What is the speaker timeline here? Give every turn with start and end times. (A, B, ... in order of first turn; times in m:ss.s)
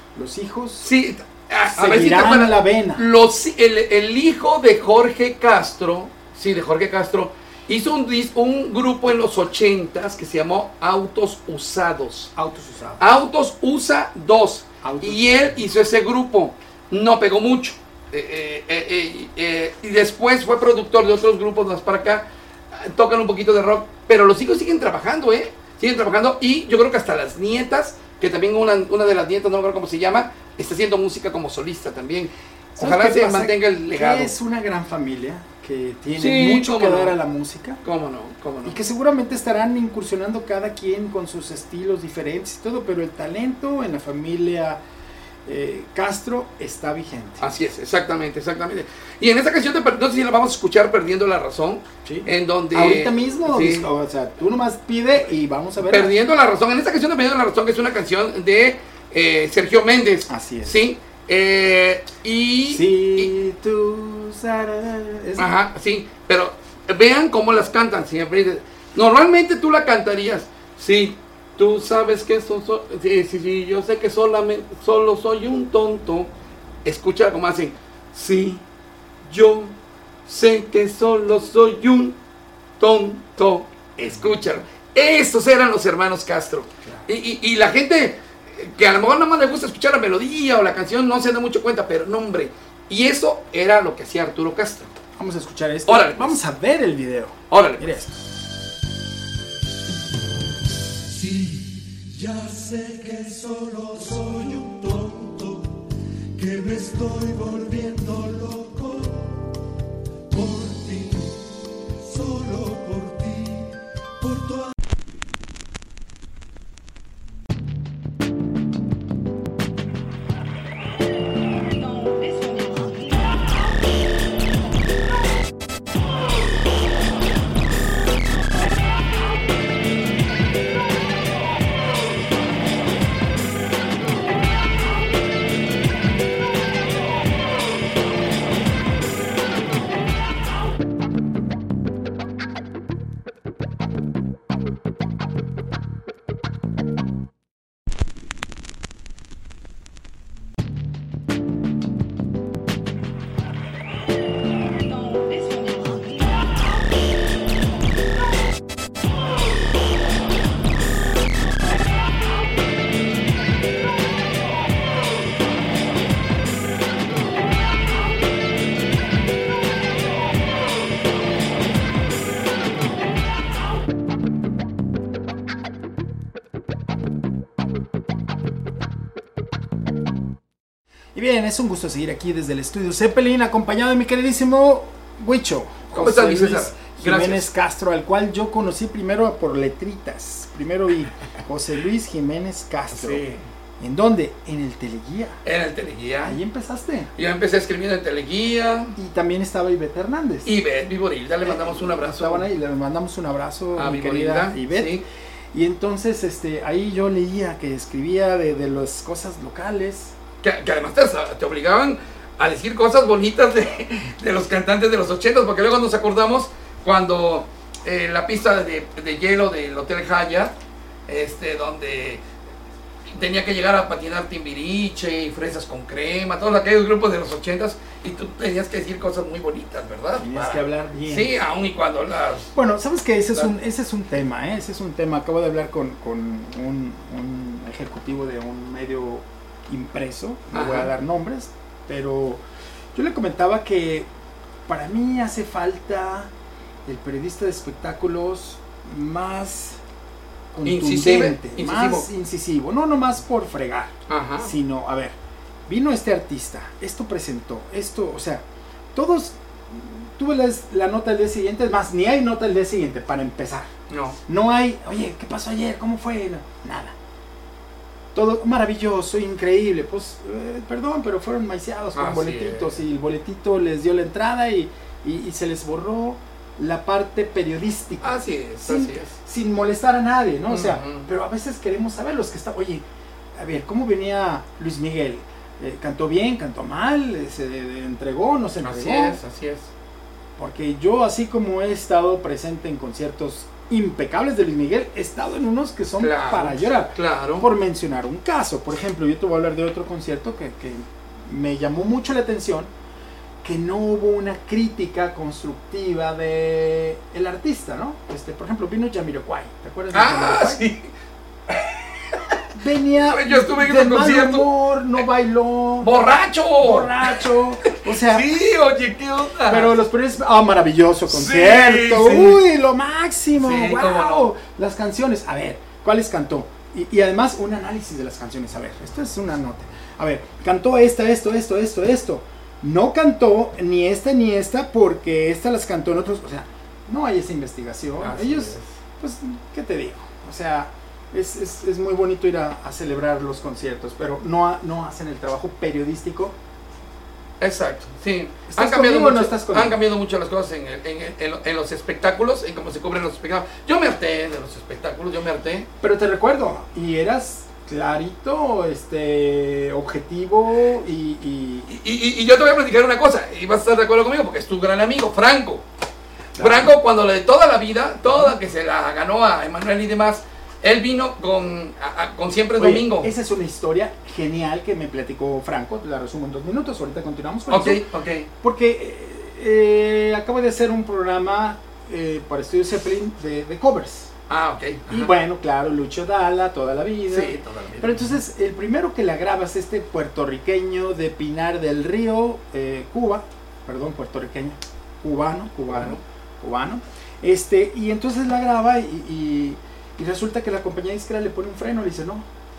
0:00.1-0:00.9 A
0:00.8-0:12.3 B
0:01.8-0:03.0 A
0:12.4-0:13.0 A
0:13.0-0:34.3 B
0:14.8-0:15.6 A
0:32.8-0:37.8 A
0:36.2-0:37.2 B
0:37.8-0:38.8 B
0:38.6-0:44.8 A
0:45.4-0:47.4 A
0:47.4-0:53.9 B
0:52.0-0:56.1 A
0:55.8-1:03.3 B
1:00.3-1:00.8 A
1:02.7-1:05.5 A
1:05.4-1:16.3 B
1:16.8-1:18.6 B
1:19.2-1:19.7 B
1:20.3-1:22.2 B
1:22.8-1:34.9 B
1:24.1-1:24.5 A
1:35.2-1:38.2 A
1:35.9-1:36.4 B
1:37.5-1:37.9 B
1:42.2-1:45.7 C
1:46.4-1:49.3 C
1:50.3-1:51.4 C
1:52.1-1:53.6 C
1:54.2-1:54.6 C
3:01.1-3:13.2 A
3:05.9-3:07.5 B
3:12.9-3:13.4 B
3:13.8-3:15.4 A
3:15.4-3:16.4 B
3:16.2-3:17.1 A
3:17.2-3:19.0 B
3:19.0-3:20.5 A
3:20.4-3:22.4 B
3:21.4-3:30.1 A
3:23.8-3:25.0 B
3:30.4-3:40.5 B
3:41.1-3:42.2 B
3:43.1-3:52.5 B
3:50.2-3:51.4 A
3:52.5-4:02.4 A
4:00.5-4:00.9 B
4:02.9-4:04.1 A
4:04.7-4:06.3 A
4:06.8-4:09.8 A
4:10.5-4:15.2 A
4:10.6-4:12.1 B
4:14.1-4:14.5 B
4:15.7-4:23.7 A
4:23.9-4:24.2 B
4:24.3-4:26.9 A
4:28.1-4:42.8 A
4:32.0-4:32.8 B
4:38.0-4:39.1 B
4:40.5-4:41.1 B
4:43.4-4:49.2 A
4:48.6-4:49.7 B
4:50.4-5:02.7 A
4:56.0-4:57.5 B
5:03.4-5:10.6 A
5:09.9-5:10.9 B
5:11.5-5:12.4 B
5:12.5-5:16.0 A
5:13.0-5:14.5 B
5:15.8-5:19.7 B
5:16.6-5:18.4 A
5:19.5-5:46.4 A
5:21.1-5:22.4 B
5:23.4-5:24.3 B
5:38.0-5:38.7 B
5:47.4-5:55.7 B
5:48.5-5:49.8 A
5:55.8-6:01.7 A
6:01.7-6:05.6 B
6:06.4-6:06.8 A
6:06.4-6:13.1 B
6:12.6-6:17.9 A
6:17.5-6:18.3 B
6:18.4-6:24.1 A
6:24.3-6:25.1 B
6:24.9-6:42.3 A
6:27.1-6:28.1 B
6:35.7-6:36.0 B